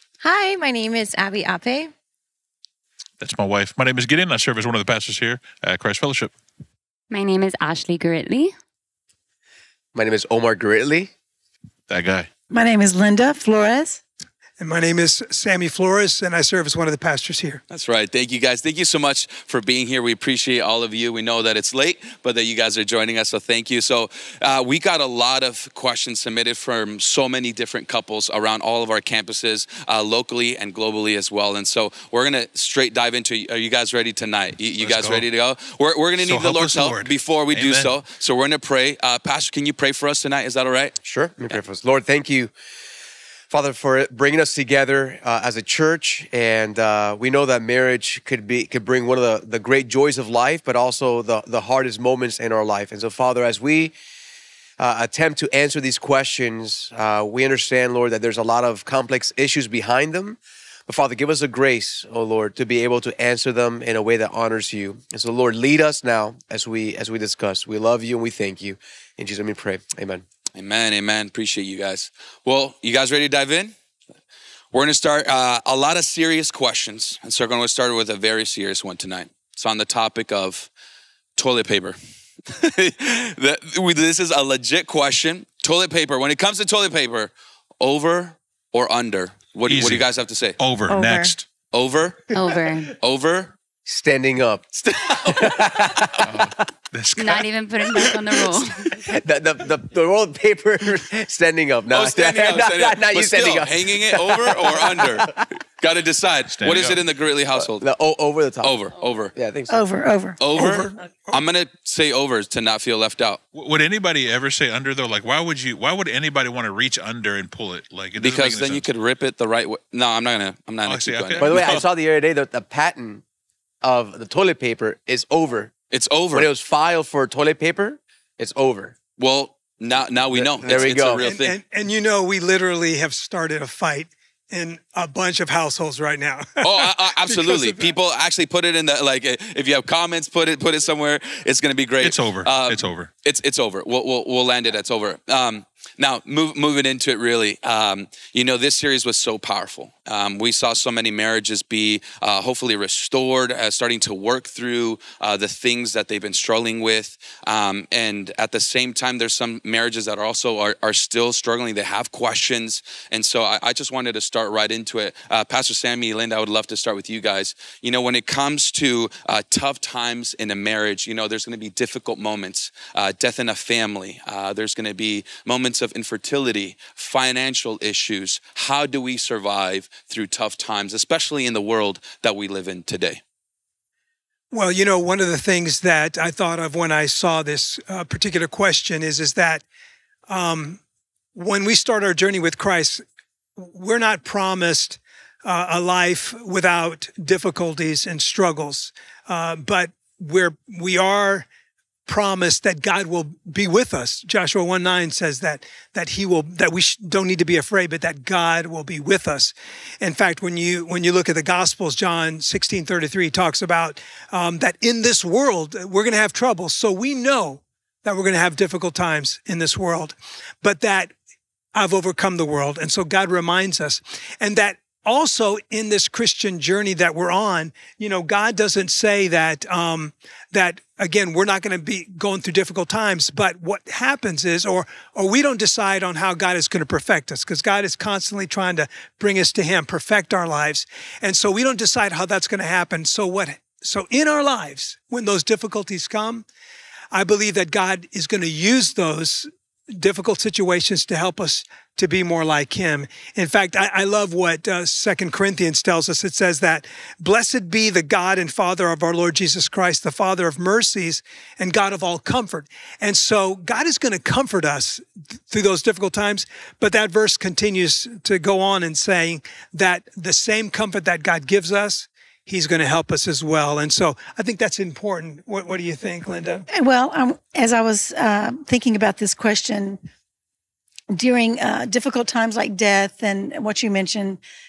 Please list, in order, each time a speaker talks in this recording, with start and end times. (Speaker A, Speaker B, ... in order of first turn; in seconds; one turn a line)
Speaker A: 0.2-1.9
Speaker B: 3.2-6.3
Speaker C: 7.1-8.5
Speaker D: 9.9-11.1
Speaker B: 11.9-12.3
Speaker E: 12.5-14.0
Speaker F: 14.6-17.6
Speaker G: 17.7-41.0
Speaker B: 34.8-35.2
Speaker B: 36.2-37.9
Speaker D: 41.0-42.5
Speaker D: 43.5-53.9
Speaker D: 54.8-70.2
Speaker G: 70.5-73.7
Speaker G: 74.7-80.7
Speaker G: 81.3-90.6
Speaker B: 89.7-90.0
Speaker B: 90.6-91.5
Speaker A: 90.9-91.3
Speaker G: 91.7-92.4
Speaker C: 92.3-92.9
Speaker G: 93.0-93.5
Speaker D: 93.8-96.6
Speaker G: 94.9-95.6
Speaker B: 96.2-97.5
Speaker C: 97.2-99.0
Speaker D: 99.0-105.5
Speaker G: 101.9-107.9
Speaker B: 106.5-107.0
Speaker D: 107.5-108.8
Speaker G: 108.6-109.3
Speaker D: 109.3-109.9
Speaker E: 109.7-110.4
Speaker G: 110.4-113.4
Speaker D: 110.5-110.9
Speaker F: 110.6-110.9
Speaker B: 113.5-118.8
Speaker G: 118.2-121.8
Speaker B: 120.8-121.8
Speaker D: 121.4-123.2
Speaker D: 123.8-125.7
Speaker G: 125.9-126.5
Speaker D: 126.3-128.9
Speaker G: 129.2-131.6
Speaker D: 130.3-131.2
Speaker F: 131.2-137.9
Speaker G: 136.6-183.2
Speaker B: 142.0-143.1
Speaker F: 184.5-189.6
Speaker F: 190.3-190.8
Speaker F: 191.3-193.0
Speaker F: 193.6-201.4
Speaker F: 202.1-221.1
Speaker F: 221.7-246.4
Speaker F: 247.1-276.6
Speaker E: 276.7-280.0
Speaker E: 281.1-284.4